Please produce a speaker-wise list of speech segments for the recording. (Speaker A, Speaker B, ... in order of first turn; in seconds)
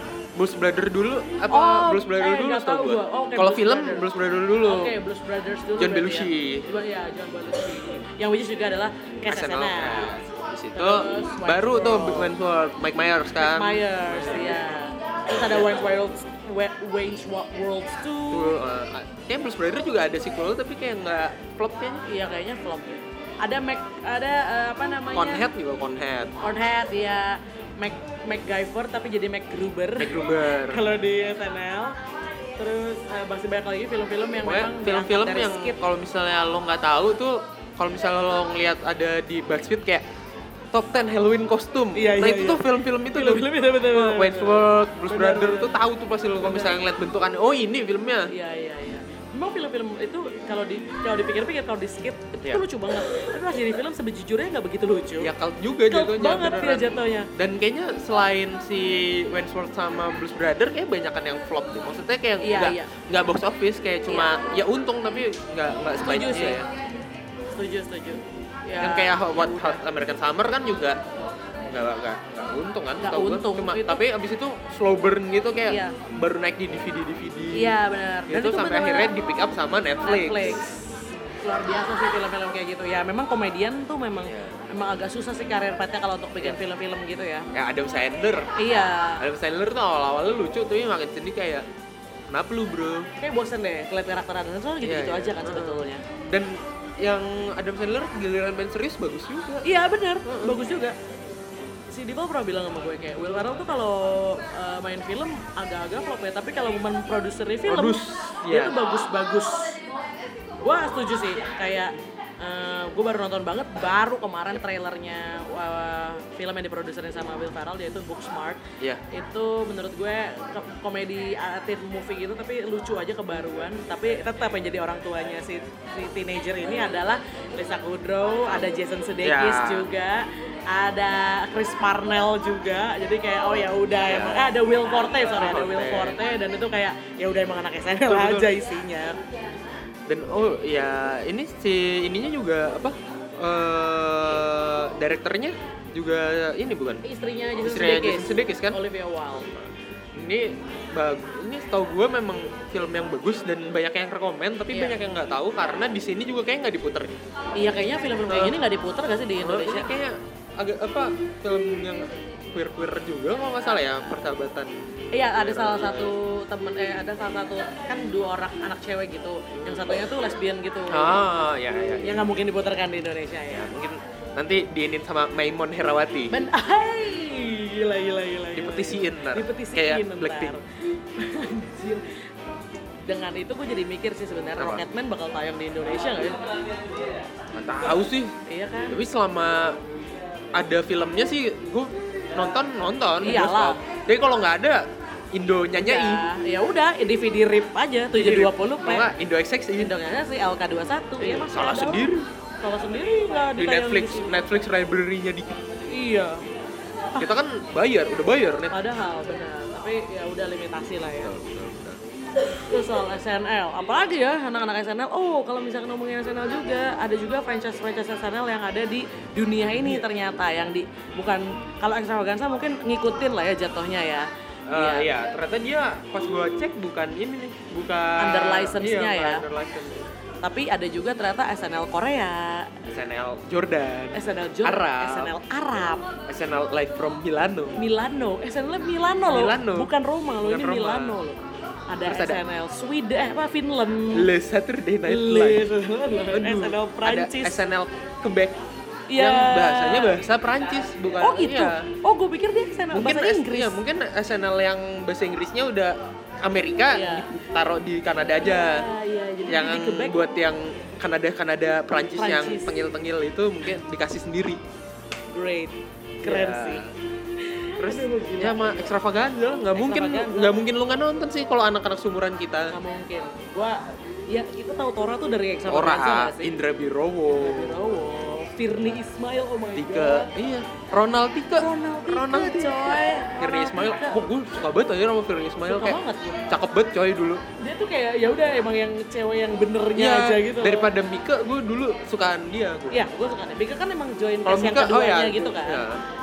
Speaker A: 0.3-4.9, 5.8-6.7, 9.3-14.7, 15.4-15.7, 18.3-22.1, 25.1-26.3, 30.0-30.8, 34.4-40.0, 40.7-48.3, 55.2-66.7, 68.8-71.0, 71.7-77.8, 78.3-80.6, 84.2-84.6, 87.5-88.5, 89.2-91.7, 92.3-93.1, 94.8-99.7, 100.2-100.6, 107.7-108.8, 129.2-129.9, 134.1-134.6, 135.2-136.2, 138.1-138.5, 140.1-147.0, 147.6-148.8, 149.5-157.2, 158.3-158.6, 159.4-164.7, 165.3-166.1, 169.6-169.9, 170.9-172.3, 173.5-176.3, 178.5-180.6, 184.6-184.8, 187.6-188.3, 188.9-189.8, 190.5-196.3, 198.2-200.0, 201.2-202.3, 203.6-205.6, 207.2-208.7, 211.2-212.0, 219.7-220.1, 224.7-230.1, 232.9-235.3, 236.3-237.8, 239.3-239.9, 240.4-241.2, 242.0-242.4, 244.1-245.7, 246.3-248.6, 249.2-251.9, 252.9-258.9, 259.5-264.6, 266.2-266.9, 267.8-272.7, 275.7-277.8, 279.8-287.4, 290.0-293.1, 294.4-296.0
Speaker B: 1.5-4.1, 4.6-10.1, 10.8-12.3, 13.4-18.6, 22.1-25.5, 26.4-32.0, 32.6-35.8, 42.0-45.8, 46.4-46.8, 48.3-55.3, 55.9-57.3, 62.4-62.9, 64.1-64.4, 66.0-66.6, 67.5-69.8, 73.0-74.0, 75.7-76.0, 77.5-79.1, 80.0-87.5, 88.6-89.2, 93.2-96.0, 99.6-101.0, 101.9-109.8, 110.6-139.2, 147.0-149.5, 154.7-155.0, 157.6-159.9, 165.1-171.3, 172.0-173.7, 176.3-180.6, 181.2-182.2, 183.1-186.4, 188.5-189.0, 193.2-193.8, 195.8-199.1, 199.8-202.1, 202.6-204.4, 205.9-206.5, 208.7-211.3, 212.6-225.1, 228.2-229.4, 230.4-232.8, 234.1-236.1, 237.8-244.3, 245.1-247.6, 249.1-250.2, 251.2-253.8, 256.9-257.3, 258.4-260.2, 262.2-262.8, 265.3-266.8, 267.4-268.9, 269.8-270.6, 272.7-276.5, 277.3-280.3, 281.6-284.2, 285.7-286.4, 287.6-290.9, 292.9-295.9